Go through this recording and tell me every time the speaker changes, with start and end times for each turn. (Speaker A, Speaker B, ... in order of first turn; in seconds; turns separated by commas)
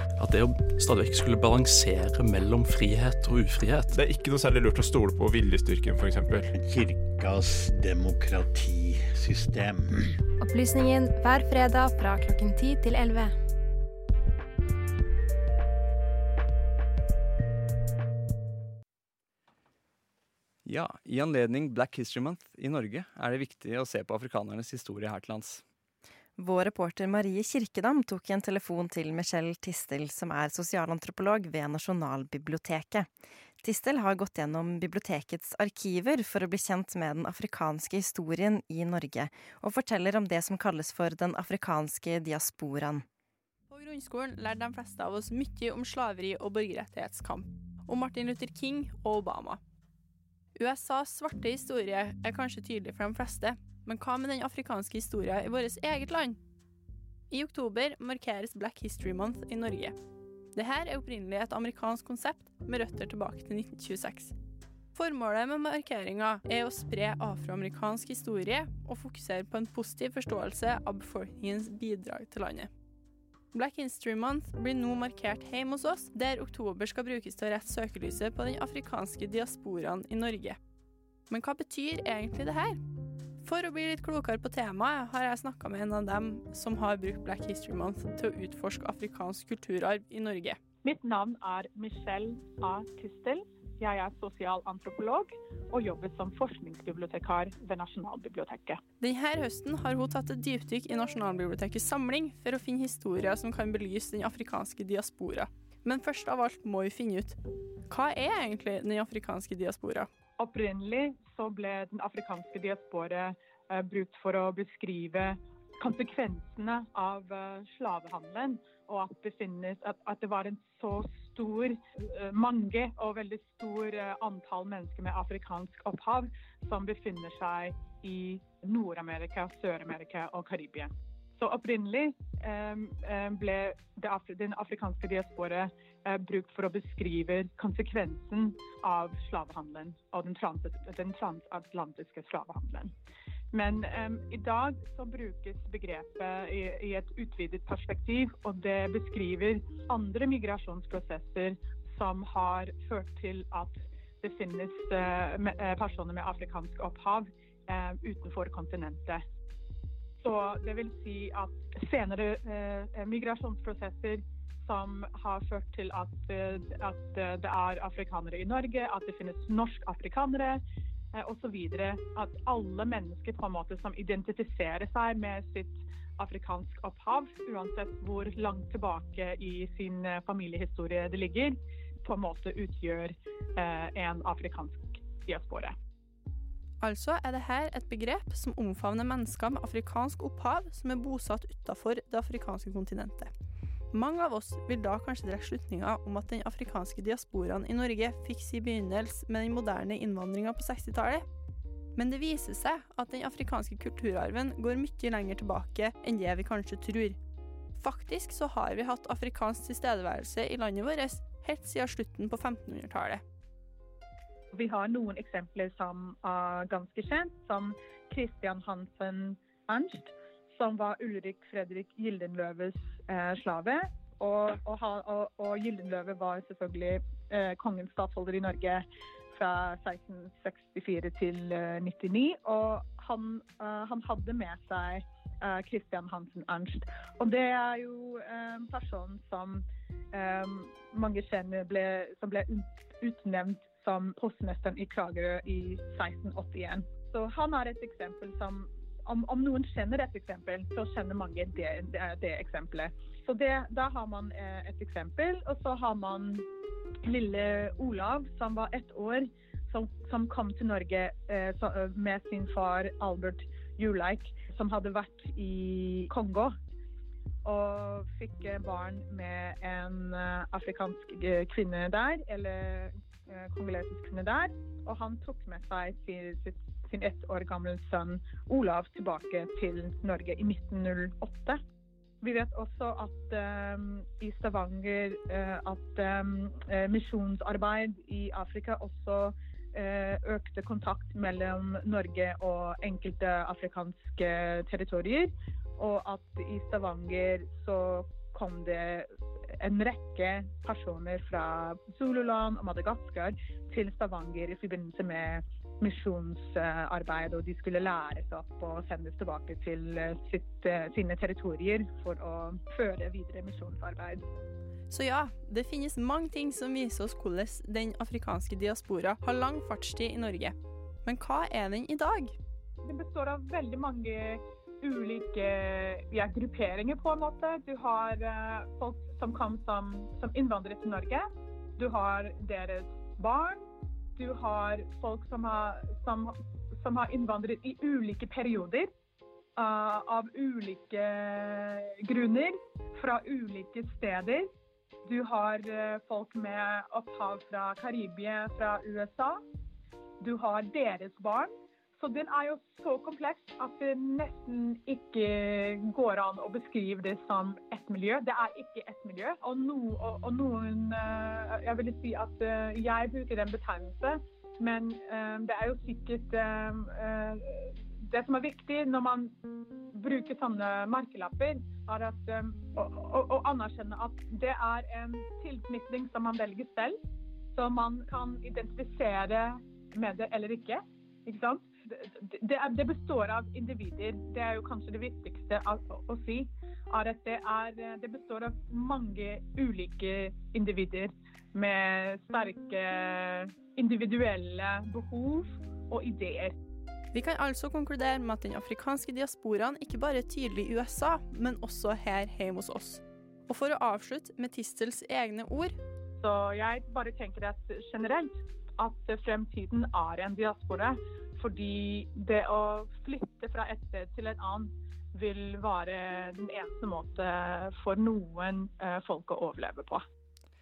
Speaker A: 0.2-3.9, Speaker B: 3.9-6.5, Speaker C: 6.5-10.2, Speaker D: 10.4-13.3, Speaker E: 20.6-25.6, Speaker F: 26.4-33.1, Speaker F: 33.6-43.0, Speaker G: 43.7-49.6, Speaker G: 50.5-56.4, Speaker G: 57.3-59.9, Speaker G: 60.5-64.3, Speaker G: 64.9-72.7, Speaker G: 73.5-80.6, Speaker G: 81.3-82.8, Speaker G: 83.4-90.6, Speaker H: 90.8-98.8, Speaker G: 99.0-107.4, Speaker G: 107.9-110.1, Speaker H: 110.4-142.9, Speaker H: 143.5-159.2, Speaker H: 160.2-170.6, Speaker H: 171.1-185.7, Speaker G: 186.8-193.3, Speaker G: 193.9-201.2, Speaker G: 201.9-207.2, Speaker G: 207.8-213.2, Speaker H: 214.5-256.4, Speaker H: 257.0-266.5, Speaker H: 267.4-281.6, Speaker H: 282.2-314.2, Speaker G: 314.9-322.3, Speaker H: 322.8-331.2, Speaker H: 331.8-333.6, Speaker H: 334.2-338.9, Speaker H: 339.6-344.5, Speaker H: 345.0-349.4, Speaker H: 350.2-369.3, Speaker H: 369.9-377.0, Speaker H: 377.5-396.5, Speaker G: 397.1-405.8, Speaker H: 406.2-420.0